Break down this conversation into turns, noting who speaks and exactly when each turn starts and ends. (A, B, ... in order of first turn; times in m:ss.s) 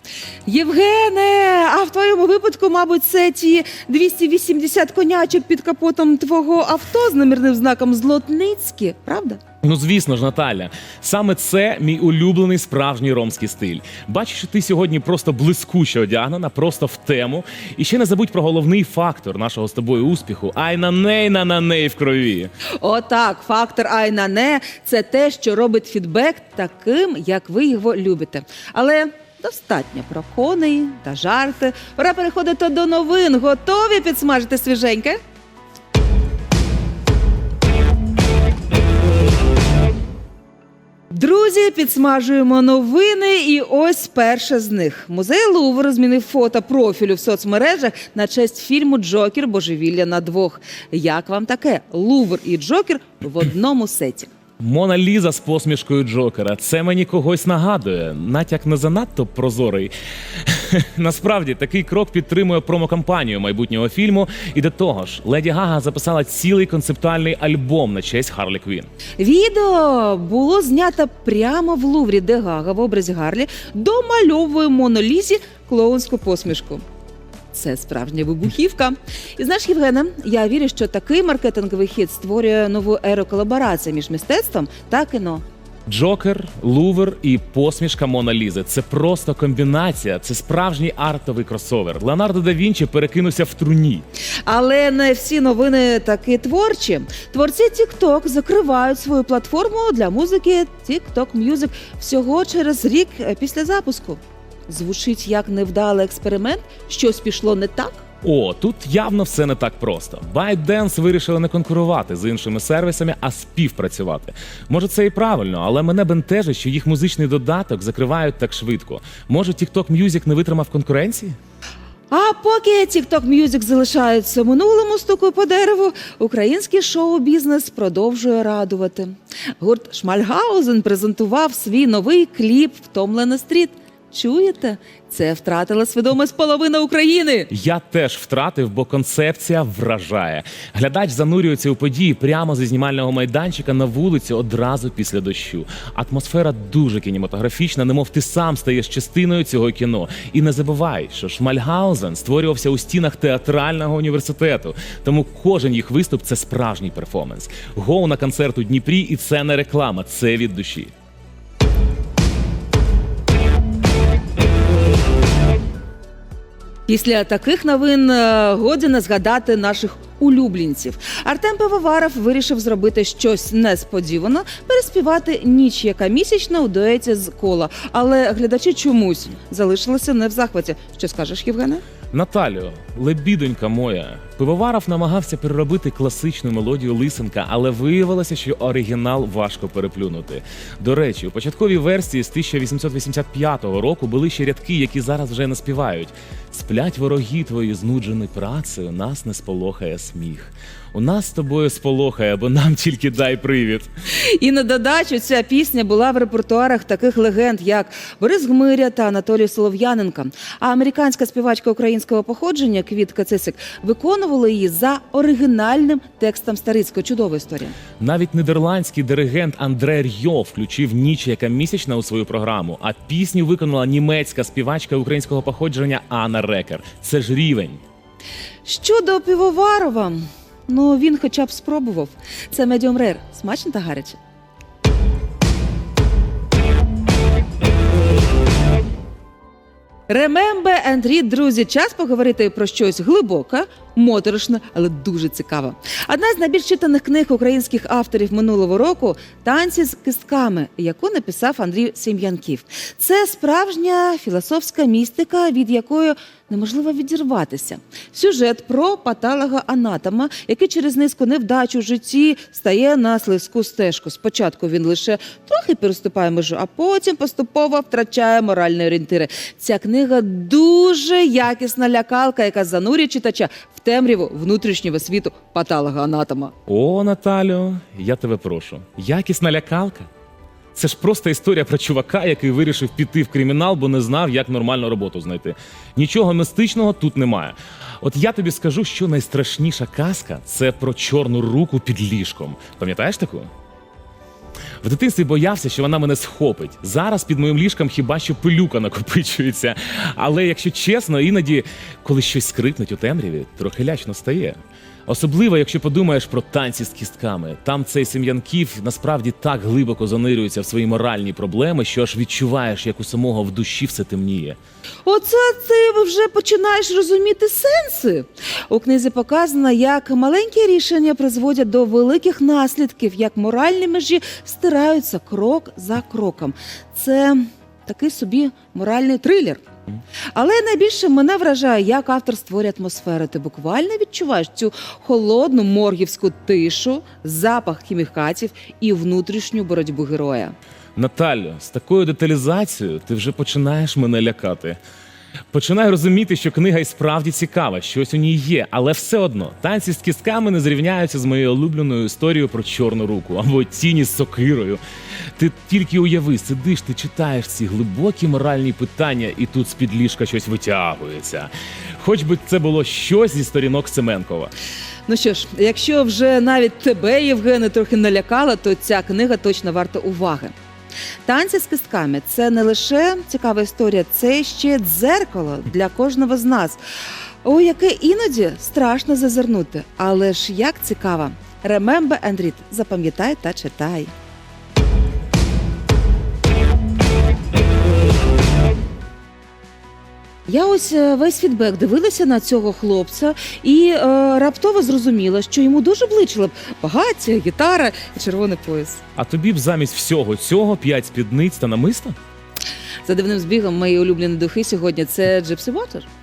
0:00.5-0:09.4 A
0:09.6-0:22.5 B
0:22.8-0:35.2 A
0:41.1-0:54.3 A
0:54.6-1:08.9 B
1:09.2-1:16.8 A
1:17.5-1:25.4 A
1:25.8-1:34.0 B
1:34.4-1:48.0 A
1:48.2-2:01.4 B
2:02.1-2:17.5 A
2:17.5-2:40.9 B
2:46.9-3:01.8 A
3:02.1-3:23.9 B
3:24.2-3:37.8 A
3:37.9-3:47.8 B
3:48.6-3:54.2 A
4:00.1-4:36.5 A
4:36.6-4:40.1 B
4:40.7-4:53.5 B
4:54.8-5:14.6 B
5:15.0-5:29.6 A
5:30.3-5:40.5 A
5:41.0-5:44.8 B
5:45.5-5:54.8 B
5:55.4-6:04.5 B
6:05.1-6:10.5 A
6:11.2-6:16.8 A
6:17.4-6:24.1 A
6:30.5-6:39.0 A
6:39.1-6:42.2 B
6:43.0-6:46.1 A